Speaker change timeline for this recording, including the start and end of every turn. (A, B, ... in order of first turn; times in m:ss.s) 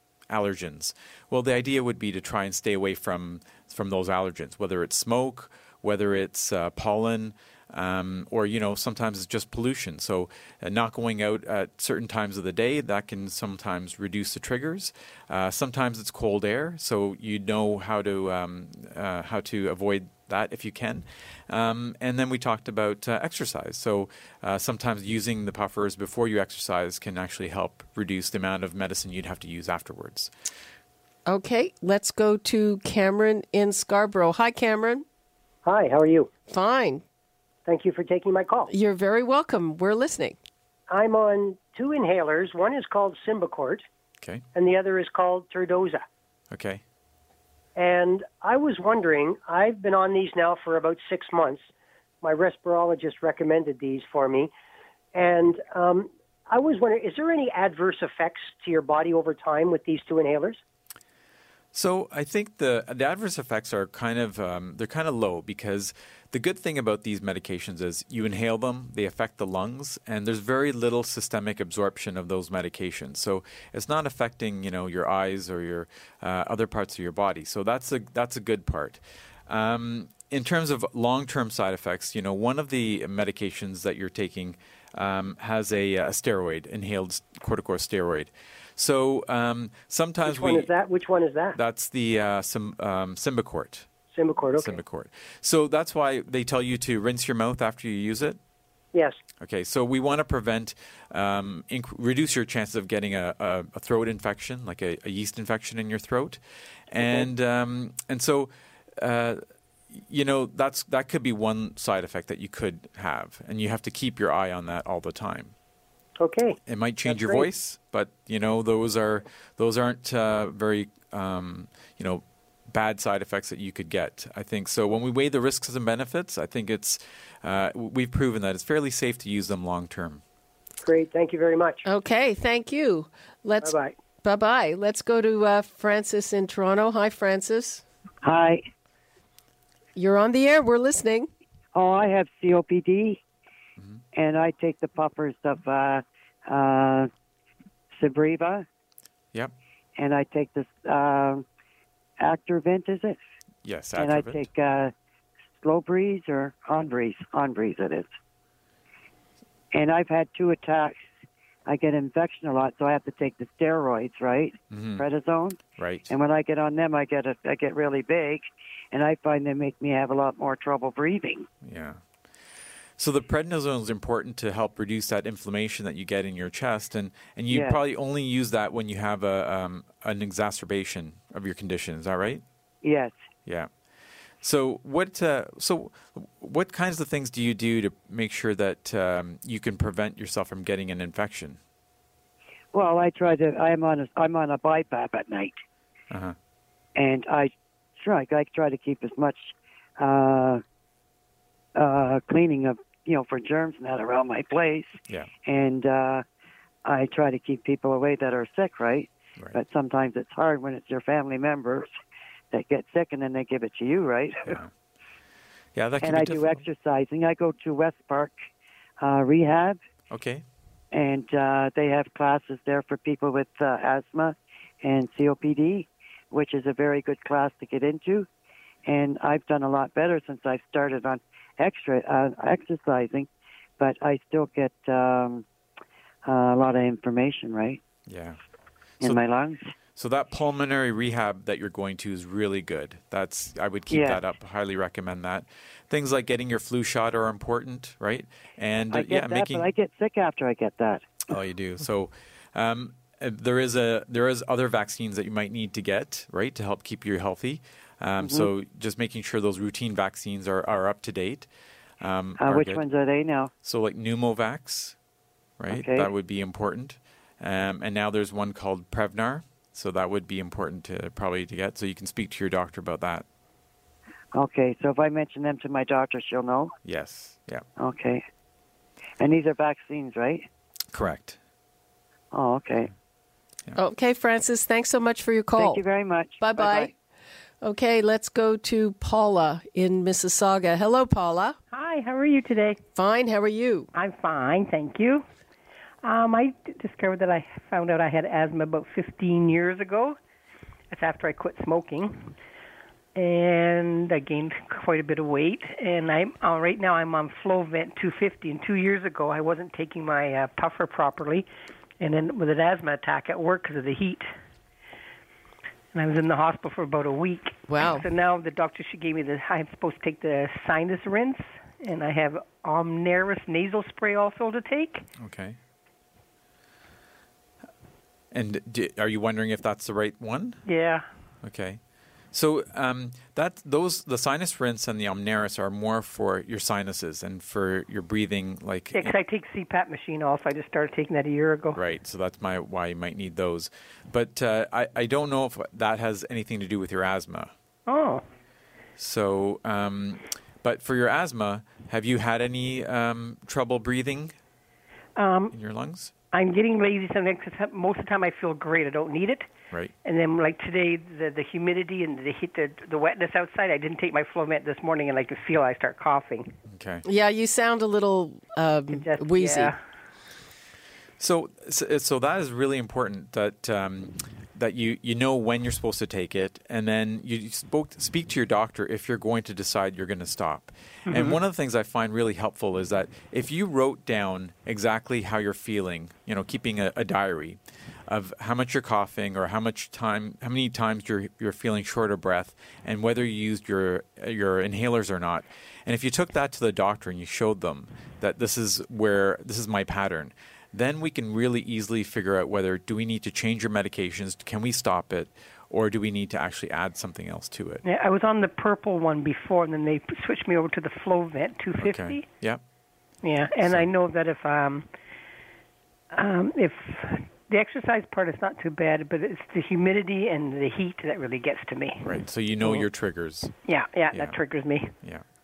0:00.3-0:30.3 A
0:31.3-0:35.0 B
0:35.6-0:36.3 C
0:36.5-0:37.0 B
0:37.7-0:38.7 C
0:38.7-0:40.4 B
0:40.9-0:43.8 C
0:44.6-0:46.0 C
0:46.5-0:46.8 A
0:47.8-0:51.7 C
0:52.2-0:54.5 C
0:55.1-1:00.6 C
1:01.7-1:30.7 A
1:30.2-1:31.6 C
1:31.6-1:33.9 A
1:34.1-1:34.8 C
1:34.6-1:38.4 A
1:39.4-1:46.4 A
1:46.9-1:49.4 A
1:49.9-1:55.5 A
1:56.2-1:57.5 C
1:56.7-2:10.2 A
2:10.8-2:11.8 C
2:11.9-2:17.8 B
2:13.6-2:13.9 C
2:18.2-2:18.6 D
2:20.0-2:21.3 B
2:21.7-2:23.2 D
2:24.1-2:27.1 D
2:28.0-2:28.7 D
2:30.0-2:31.4 D
2:32.2-2:33.2 D
2:33.6-2:34.5 A
2:34.0-2:34.9 D
2:35.6-2:38.1 D
2:39.7-2:41.1 D
2:41.7-2:45.6 D
2:44.7-2:45.0 A
2:45.8-2:46.1 A
2:46.1-2:51.5 D
2:51.6-2:52.0 A
2:53.0-3:02.4 A
2:57.5-2:57.8 D
3:02.8-3:03.1 D
3:04.4-3:11.6 A
3:12.7-3:15.6 D
3:16.1-3:16.4 A
3:17.0-3:20.6 D
3:21.8-3:26.2 D
3:26.8-3:31.9 D
3:32.5-3:34.6 D
3:34.5-3:34.7 A
3:35.8-3:36.6 A
3:36.0-3:38.3 D
3:39.0-3:39.8 D
3:40.1-3:40.4 A
3:40.9-3:48.3 D
3:48.9-3:55.4 D
3:56.3-3:57.8 D
3:58.1-3:58.4 A
3:59.0-3:59.7 D
4:00.0-4:09.7 A
4:03.9-4:04.2 D
4:08.9-4:11.0 D
4:11.3-4:21.5 A
4:18.2-4:18.5 D
4:22.0-4:22.8 A
4:22.4-4:23.5 D
4:23.6-4:25.0 A
4:25.6-4:33.2 A
4:25.7-4:26.1 D
4:34.3-4:36.8 D
4:36.8-4:37.6 A
4:37.8-4:38.2 D
4:39.2-4:40.5 D
4:40.9-4:41.4 A
4:42.3-4:42.9 D
4:43.8-4:45.8 B
4:45.6-4:46.9 D
4:46.4-4:46.9 B
4:47.6-4:51.6 B
4:51.7-4:52.8 E
4:53.0-4:53.9 B
4:53.9-4:55.2 E
4:56.0-5:00.2 E
5:00.9-5:02.4 E
5:03.2-5:11.5 E
5:12.0-5:14.3 E
5:15.9-5:25.0 E
5:17.7-5:18.1 B
5:25.2-5:25.6 A
5:28.3-5:30.6 A
5:30.7-5:31.1 E
5:31.4-5:31.8 A
5:32.3-5:39.2 A
5:38.9-5:41.8 E
5:41.7-5:47.5 A
5:47.9-5:48.2 E
5:49.0-5:54.3 A
5:55.2-5:55.6 E
5:55.5-5:56.1 A
5:56.3-5:59.5 E
6:00.0-6:06.5 E
6:06.7-6:07.0 A
6:07.0-6:09.7 B
6:09.0-6:09.8 E
6:11.2-6:47.8 A
6:21.1-6:21.4 E
6:47.8-6:52.3 E
6:51.8-6:52.6 A
6:53.2-6:54.9 E
6:53.6-6:53.9 A
6:56.1-7:02.9 E
7:02.0-7:03.6 A
7:03.6-7:04.9 E
7:04.1-7:04.4 A